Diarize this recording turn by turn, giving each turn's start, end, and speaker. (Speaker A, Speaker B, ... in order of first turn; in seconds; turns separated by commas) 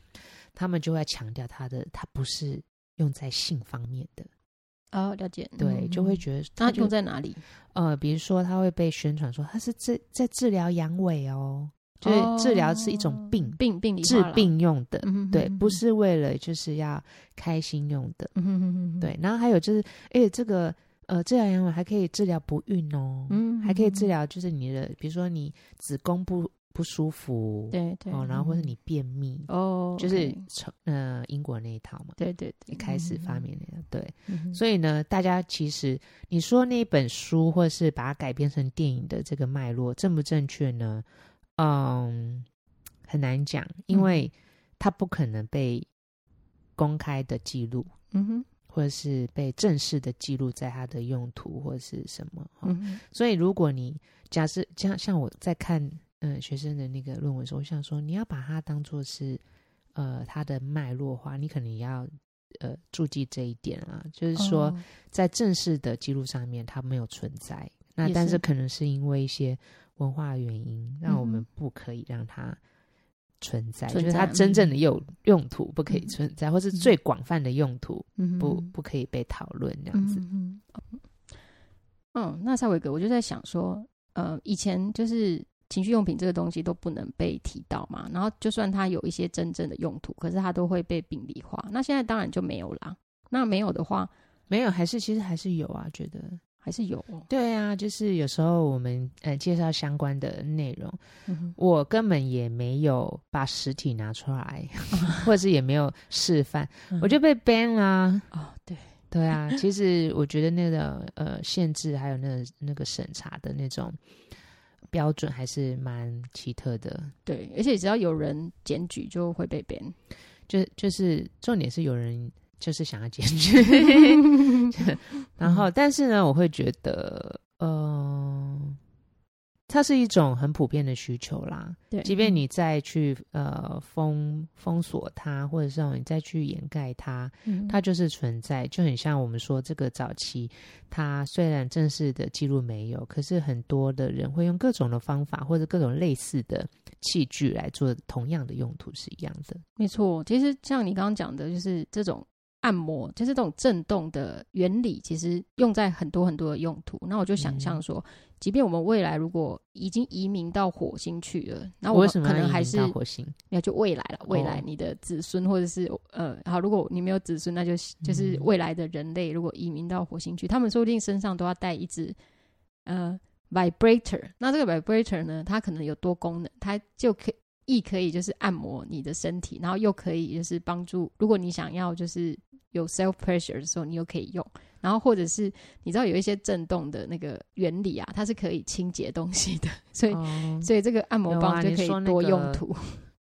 Speaker A: 0.6-4.3, Speaker B: 4.9-7.4, Speaker A: 5.6-6.9, Speaker A: 7.7-18.3, Speaker B: 12.0-15.8, Speaker B: 18.4-19.1, Speaker A: 19.0-32.2, Speaker B: 23.3-24.1, Speaker B: 27.7-28.7, Speaker B: 29.5-30.4, Speaker B: 32.2-33.4, Speaker A: 32.7-41.0, Speaker B: 34.3-34.6, Speaker A: 41.6-42.5, Speaker A: 43.1-45.9, Speaker B: 43.9-44.2, Speaker A: 46.8-47.9, Speaker B: 48.1-48.5, Speaker A: 48.7-59.4, Speaker B: 52.6-53.0, Speaker A: 60.0-72.6, Speaker B: 64.4-64.8, Speaker B: 68.0-68.4, Speaker B: 71.1-71.5, Speaker A: 73.4-80.2, Speaker B: 73.9-74.7, Speaker B: 78.2-78.7, Speaker B: 79.9-81.0, Speaker B: 82.1-94.1, Speaker A: 94.5-96.4, Speaker B: 96.6-97.3, Speaker A: 97.3-101.0, Speaker B: 101.3-101.6, Speaker A: 101.6-108.3, Speaker B: 105.0-105.2, Speaker B: 108.3-109.6, Speaker A: 109.1-114.0, Speaker A: 114.9-117.1, Speaker B: 117.3-120.0, Speaker A: 120.5-128.8, Speaker A: 129.7-149.6, Speaker B: 131.9-132.4, Speaker B: 137.4-137.8, Speaker B: 149.8-163.0, Speaker A: 157.4-157.8, Speaker A: 161.9-163.4, Speaker B: 163.5-172.2, Speaker A: 164.3-164.6, Speaker A: 168.0-168.5, Speaker B: 172.8-193.1, Speaker A: 190.1-190.7, Speaker A: 191.3-192.6